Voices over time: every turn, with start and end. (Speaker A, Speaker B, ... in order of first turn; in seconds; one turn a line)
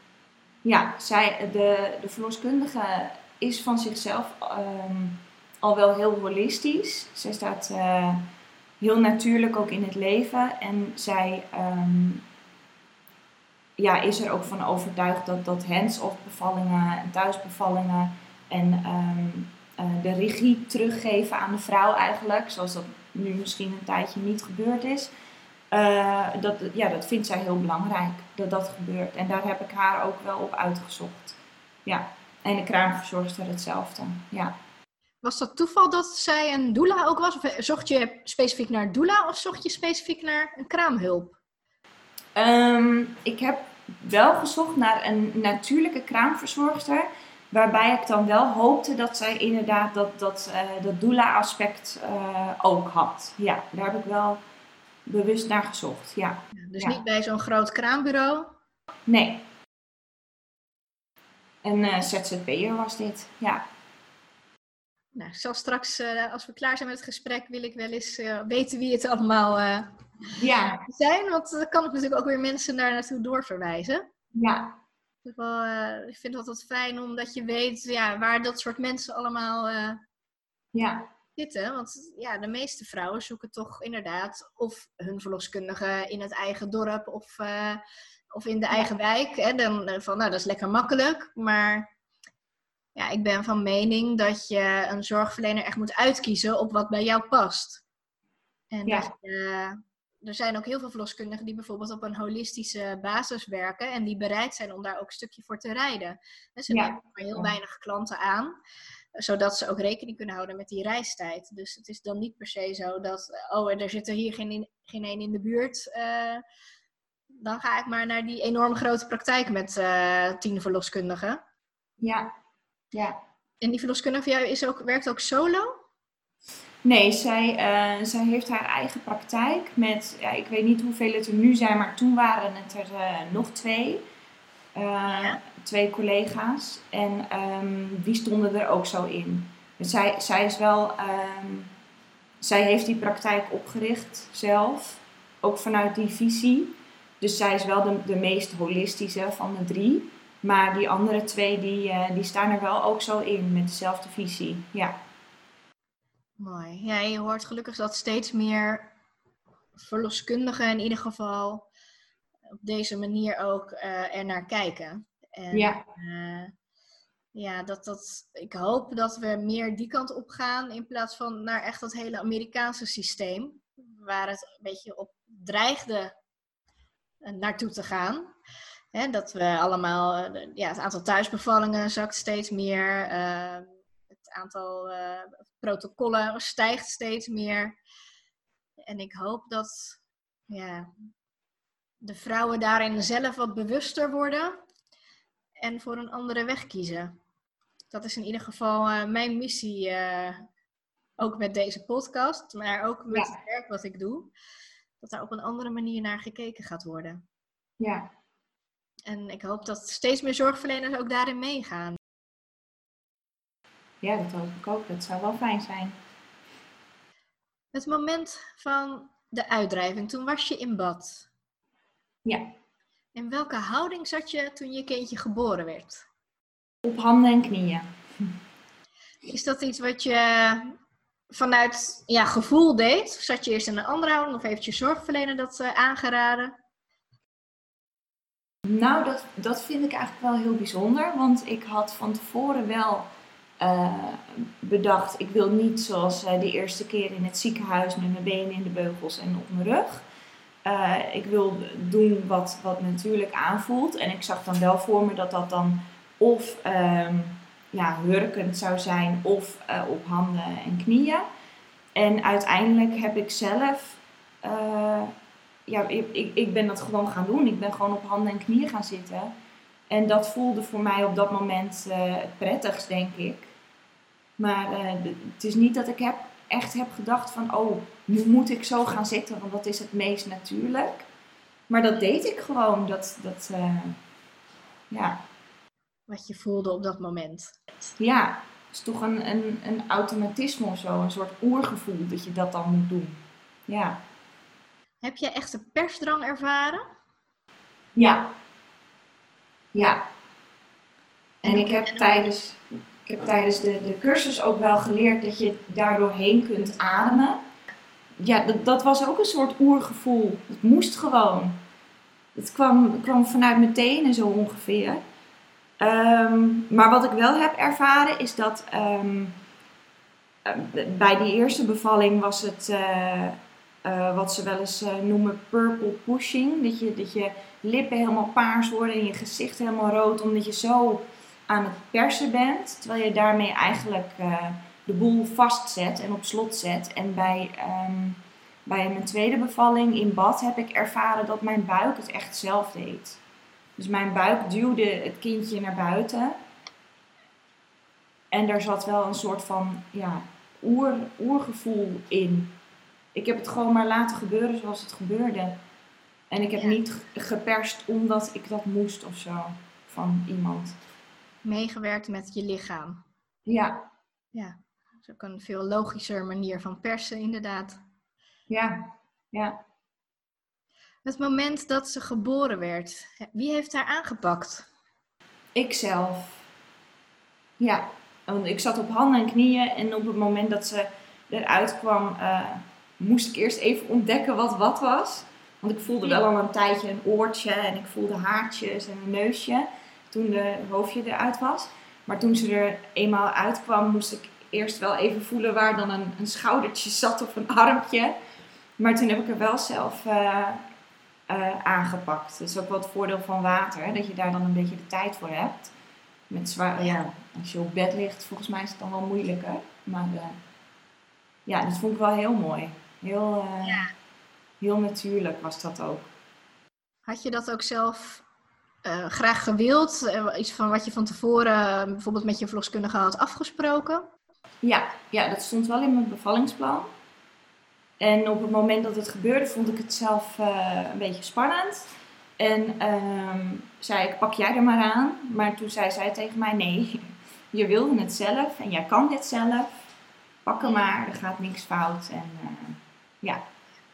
Speaker A: 0.6-8.2
Speaker A: 8.8-12.2
Speaker A: 13.8-25.1
Speaker A: 25.7-34.5
Speaker B: 35.2-41.4
Speaker A: 42.4-54.4
Speaker A: 55.1-57.0
Speaker B: 56.6-58.5
Speaker A: 59.1-59.5
Speaker A: 61.6-63.6
Speaker B: 65.2-69.9
Speaker A: 70.4-70.8
Speaker B: 70.8-74.1
Speaker A: 74.3-74.8
Speaker B: 75.2-80.0
Speaker A: 80.7-81.1
Speaker B: 81.4-91.9
Speaker B: 93.0-97.8
Speaker B: 98.7-108.6
Speaker A: 98.9-99.1
Speaker A: 106.7-107.5
Speaker B: 109.2-116.4
Speaker B: 117.4-121.4
Speaker A: 122.0-122.3
Speaker B: 123.6-125.8
Speaker A: 126.8-134.0
Speaker A: 134.8-141.7
Speaker A: 142.4-155.0
Speaker B: 156.4-158.9
Speaker B: 159.8-161.7
Speaker B: 162.6-166.5
Speaker A: 165.5-165.8
Speaker B: 167.3-176.1
Speaker B: 177.2-178.3
Speaker B: 178.9-187.8
Speaker B: 188.8-190.9
Speaker B: 192.0-194.6
Speaker B: 195.6-197.2
Speaker B: 197.9-200.5
Speaker B: 201.2-204.3
Speaker B: 205.0-207.2
Speaker A: 207.8-208.1
Speaker B: 209.1-212.0
Speaker A: 214.0-216.0
Speaker B: 217.7-221.3
Speaker A: 222.2-222.5
Speaker B: 223.2-226.1
Speaker A: 226.8-227.9
Speaker B: 229.3-230.8
Speaker B: 231.3-236.6
Speaker A: 238.7-243.1
Speaker A: 243.6-250.1
Speaker A: 250.7-261.3
Speaker A: 261.9-265.1
Speaker A: 265.7-269.3
Speaker A: 269.9-273.5
Speaker A: 274.4-281.1
Speaker A: 281.7-284.0
Speaker A: 284.9-285.2
Speaker B: 286.1-287.7
Speaker A: 288.0-294.0
Speaker B: 295.0-296.9
Speaker A: 297.9-298.3
Speaker A: 299.7-300.0
Speaker A: 301.4-307.4
Speaker B: 301.5-302.1
Speaker A: 308.2-311.6
Speaker A: 312.4-315.0
Speaker A: 315.8-319.4
Speaker A: 320.4-343.2
Speaker A: 343.8-346.4
Speaker A: 348.3-352.6
Speaker A: 353.1-355.6
Speaker A: 356.3-360.8
Speaker B: 361.4-363.0
Speaker A: 363.5-363.9
Speaker B: 364.3-367.8
Speaker A: 368.5-369.6
Speaker B: 371.1-374.7
Speaker A: 375.6-376.4
Speaker A: 377.6-398.1
Speaker A: 398.8-400.6
Speaker A: 401.3-405.7
Speaker A: 406.3-410.4
Speaker A: 411.5-413.9
Speaker B: 413.6-413.9
Speaker A: 414.6-416.1
Speaker B: 417.1-418.2
Speaker B: 418.8-424.1
Speaker A: 424.6-426.9
Speaker A: 428.0-431.9
Speaker A: 432.4-439.7
Speaker A: 440.4-443.5